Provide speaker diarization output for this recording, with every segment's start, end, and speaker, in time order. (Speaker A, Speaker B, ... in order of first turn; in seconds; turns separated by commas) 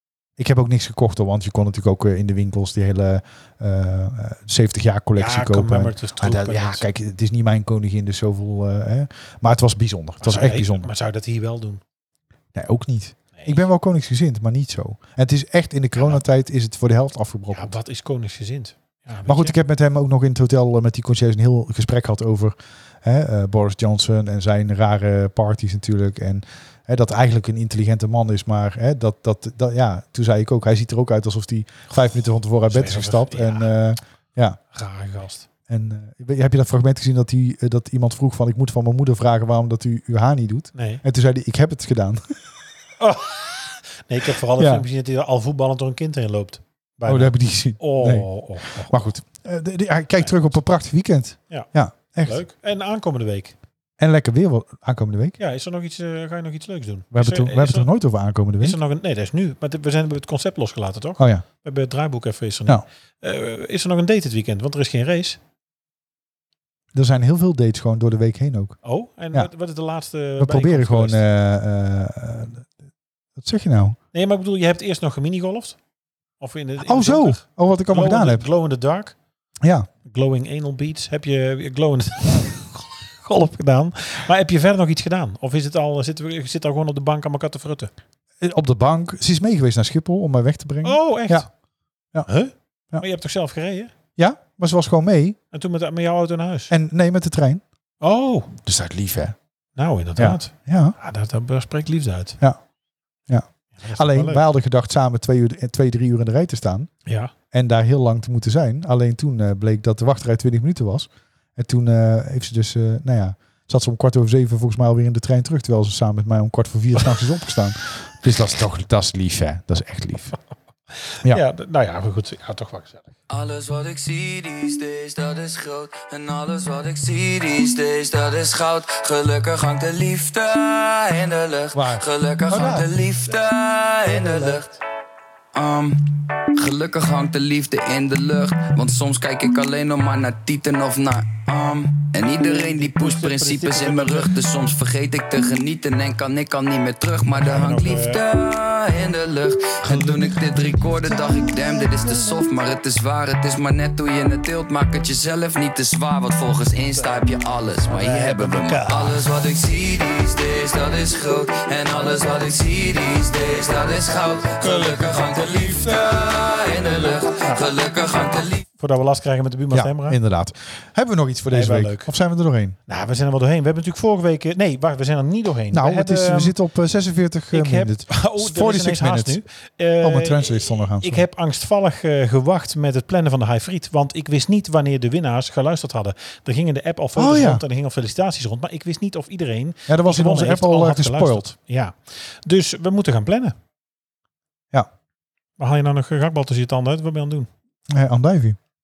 Speaker A: 0.4-10.9, Speaker B: 5.2-6.9, Speaker B: 10.2-11.8, Speaker A: 12.6-17.8, Speaker B: 13.4-13.6, Speaker B: 16.0-16.2, Speaker B: 17.5-19.6, Speaker A: 19.3-34.6, Speaker B: 32.7-33.7, Speaker B: 34.7-35.5, Speaker A: 35.7-42.2, Speaker B: 40.7-41.0, Speaker B: 43.0-49.0, Speaker A: 44.6-44.9, Speaker A: 47.1-52.4, Speaker B: 50.2-50.5, Speaker B: 52.2-53.5, Speaker A: 54.0-55.4, Speaker B: 55.4-57.9, Speaker A: 57.1-58.8, Speaker B: 58.6-65.4, Speaker A: 61.2-61.4, Speaker A: 66.9-68.8, Speaker B: 68.8-71.2, Speaker A: 70.4-72.7, Speaker A: 73.4-74.0, Speaker B: 74.1-75.8, Speaker B: 76.4-79.1, Speaker A: 76.8-78.4, Speaker A: 79.6-79.9, Speaker B: 80.0-87.9, Speaker A: 88.4-91.5, Speaker B: 90.8-91.5, Speaker B: 92.3-93.9, Speaker A: 94.2-95.4, Speaker B: 95.5-96.7, Speaker A: 96.7-97.6, Speaker B: 98.0-98.5, Speaker A: 98.7-99.3, Speaker B: 99.8-102.4, Speaker A: 100.2-101.0, Speaker A: 103.3-106.9, Speaker B: 103.7-104.4, Speaker B: 107.1-107.3, Speaker A: 107.5-120.3, Speaker B: 121.1-123.1, Speaker C: 123.3-134.7, Speaker A: 131.7-132.9, Speaker C: 135.5-136.0, Speaker C: 136.5-168.6, Speaker B: 142.4-144.3, Speaker B: 147.3-148.2, Speaker B: 149.9-150.4, Speaker B: 151.1-151.8, Speaker B: 157.9-159.2, Speaker B: 167.4-167.7, Speaker B: 168.8-170.2, Speaker A: 169.7-172.8, Speaker B: 171.5-172.1, Speaker B: 172.9-176.6, Speaker A: 175.7-179.4, Speaker B: 177.5-193.6, Speaker A: 180.0-181.3, Speaker A: 187.2-187.6, Speaker A: 189.9-191.5, Speaker B: 195.6-197.5, Speaker A: 197.9-198.6